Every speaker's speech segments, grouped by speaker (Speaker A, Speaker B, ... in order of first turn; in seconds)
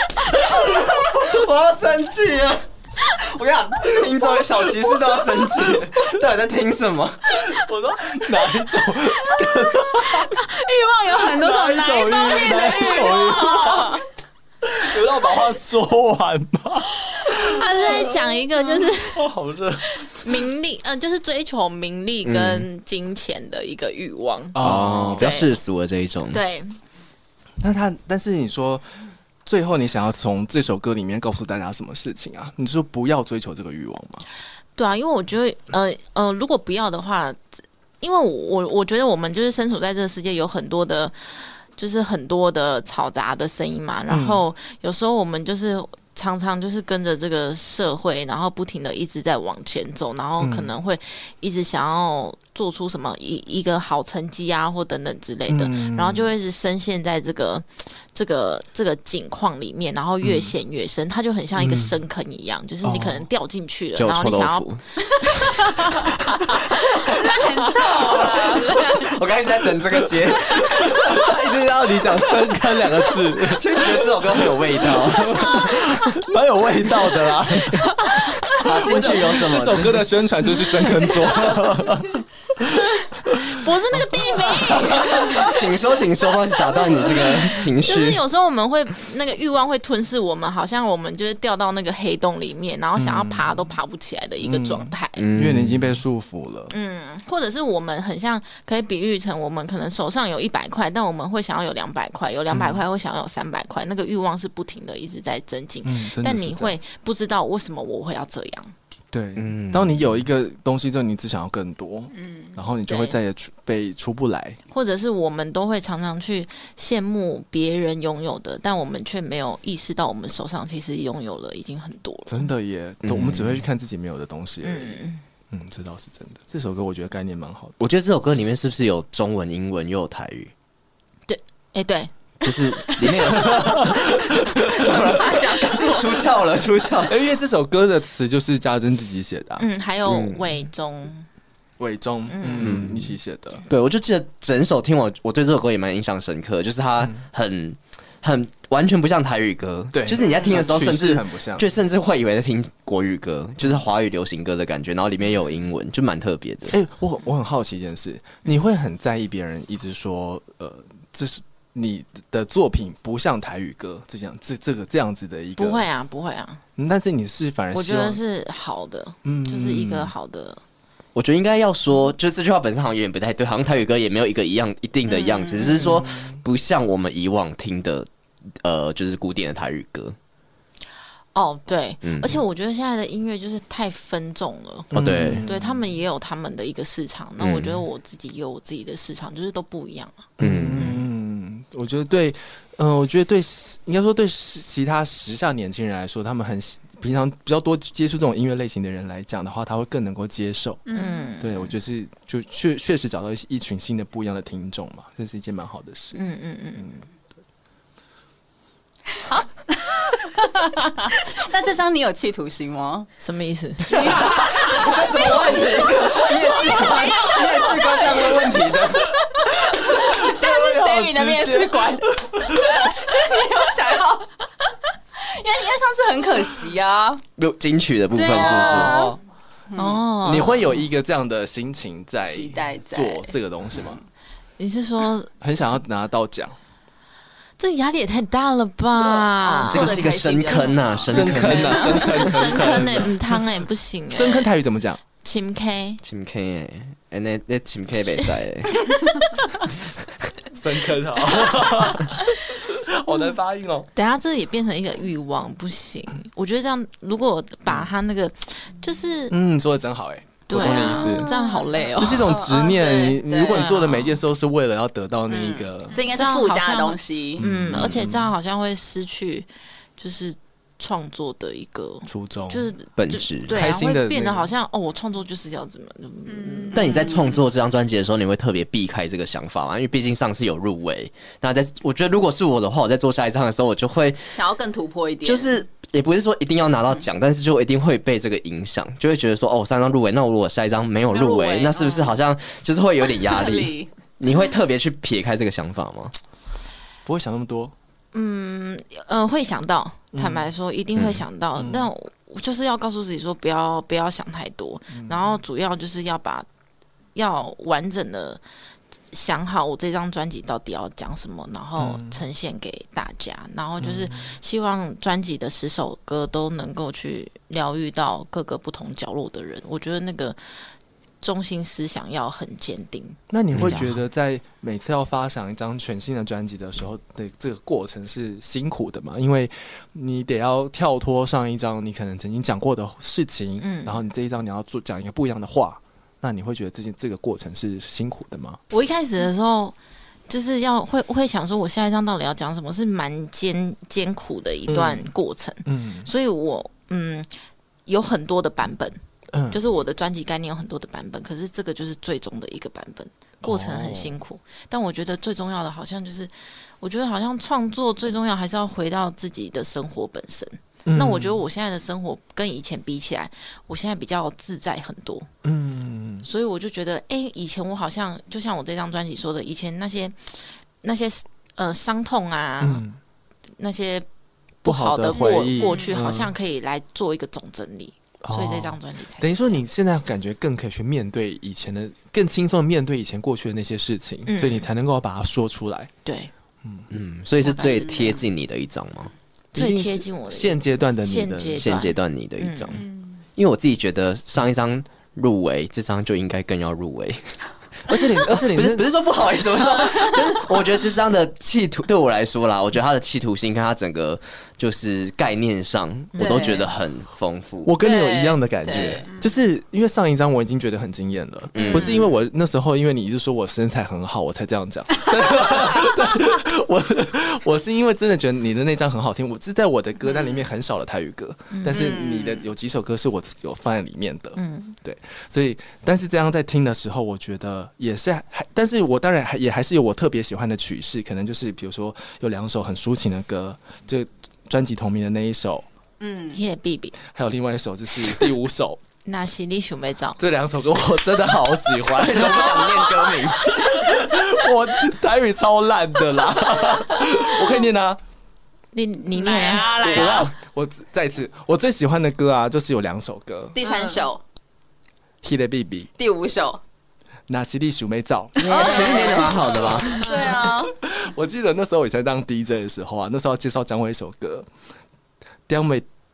Speaker A: 0.3-7.4, 22.2-22.7, 24.6-26.4, 64.0-64.8, 65.8-71.3, 73.4-75.9, 78.6-80.0, 84.5-88.2, 95.2-95.9, 109.4-110.1, 123.0-123.6, 127.8-130.5, 132.4-137.2, 140.1-140.4, 142.5-143.1, 143.7-156.8, 171.1-178.1, 178.6-180.2, 182.0-182.4, 184.9-185.5, 187.4-187.8, 190.4-191.0, 213.9-219.1, 227.4-228.9, 239.7-242.2, 246.0-248.8, 273.0-273.6, 276.7-284.3, 285.2-296.1, 300.9-301.2, 323.5-323.8, 386.9-389.1, 391.6-397.4, 398.3-407.7, 411.6-412.1, 441.8-443.8, 458.4-460.1
Speaker B: 0.5-0.9, 5.8-6.2, 7.4-10.4, 11.2-14.0, 14.6-20.3, 24.5-25.3, 27.6-28.9, 29.4-34.2, 44.1-44.4, 50.4-50.7, 55.5-56.3, 60.2-60.5, 61.5-62.0, 62.8-63.2, 70.6-85.5, 93.0-93.7, 94.4-96.7, 102.5-102.8, 105.8-106.8, 109.1-114.6, 122.3-127.8, 133.4-135.0, 137.1-139.7, 141.8-143.7, 149.9-151.7, 156.7-165.8, 166.8-168.2, 169.2-170.1, 175.8-176.4, 184.9-185.8, 190.4-200.8, 201.4-206.2, 219.2-222.9, 228.2-229.2, 230.2-234.0, 235.4-236.5, 241.1-245.0, 250.5-253.9, 259.3-261.3, 262.0-265.9, 267.4-268.3, 272.1-272.7, 273.5-274.5, 297.1-297.7, 300.1-300.5, 301.6-301.9, 304.9-305.4, 311.8-312.2, 313.8-314.4, 323.3-338.6, 344.7-345.1, 345.6-346.1, 349.3-349.6, 353.4-354.1, 360.9-361.4, 365.4-366.2, 372.6-373.0, 374.6-376.3, 378.2-385.9, 389.5-391.8, 397.9-398.9, 407.6-435.6, 437.0-438.8, 440.2-448.0, 449.7-453.6, 455.2-455.9, 457.3-458.8, 459.4-459.9, 460.5-464.5, 465.5-465.9
Speaker C: 10.1-14.0, 67.0-69.1, 112.2-112.5, 200.9-201.3, 276.3-276.7, 291.1-292.1, 293.2-293.8, 375.1-376.0, 449.1-450.3, 453.6-454.0, 460.0-460.3
Speaker D: 17.3-19.3, 19.9-25.6, 26.3-26.8, 34.8-64.7, 65.2-65.8, 83.3-85.5, 87.1-95.2, 96.7-108.7, 112.9-113.1, 114.7-122.5, 124.6-125.2, 131.3-132.1, 139.6-141.3, 142.3-142.8, 165.6-166.6, 167.7-170.6, 175.5-176.0, 181.3-191.0, 200.9-201.7, 206.1-206.9, 213.2-214.3, 229.8-230.8, 234.6-235.8, 237.6-240.7, 241.2-244.5, 245.2-246.0, 253.9-259.4, 260.5-262.4, 263.5-264.1, 266.0-277.1, 298.1-306.4, 307.1-308.4, 309.1-320.4, 321.2-323.9, 333.6-334.0, 338.7-339.8, 340.3-347.3, 347.9-365.3, 366.2-372.8, 373.6-374.1, 374.6-379.6, 384.3-384.7, 386.0-386.3, 387.4-388.2, 389.5-392.8, 406.1-406.6, 421.5-421.9, 424.4-424.8, 436.3-436.9, 439.0-440.2, 448.7-450.0, 458.8-459.2
Speaker E: 134.9-136.0, 175.1-175.8, 210.2-213.1, 213.9-224.4, 225.2-227.2, 228.1-229.2, 229.7-230.0, 232.2-234.0, 239.0-242.3, 261.0-263.7, 265.3-267.4, 276.8-277.4, 284.3-285.6, 387.6-388.2, 406.2-406.7, 407.8-409.1, 411.6-412.1, 421.7-422.4, 436.0-436.4, 449.6-450.1, 453.5-454.2, 456.0-456.6, 458.4-460.7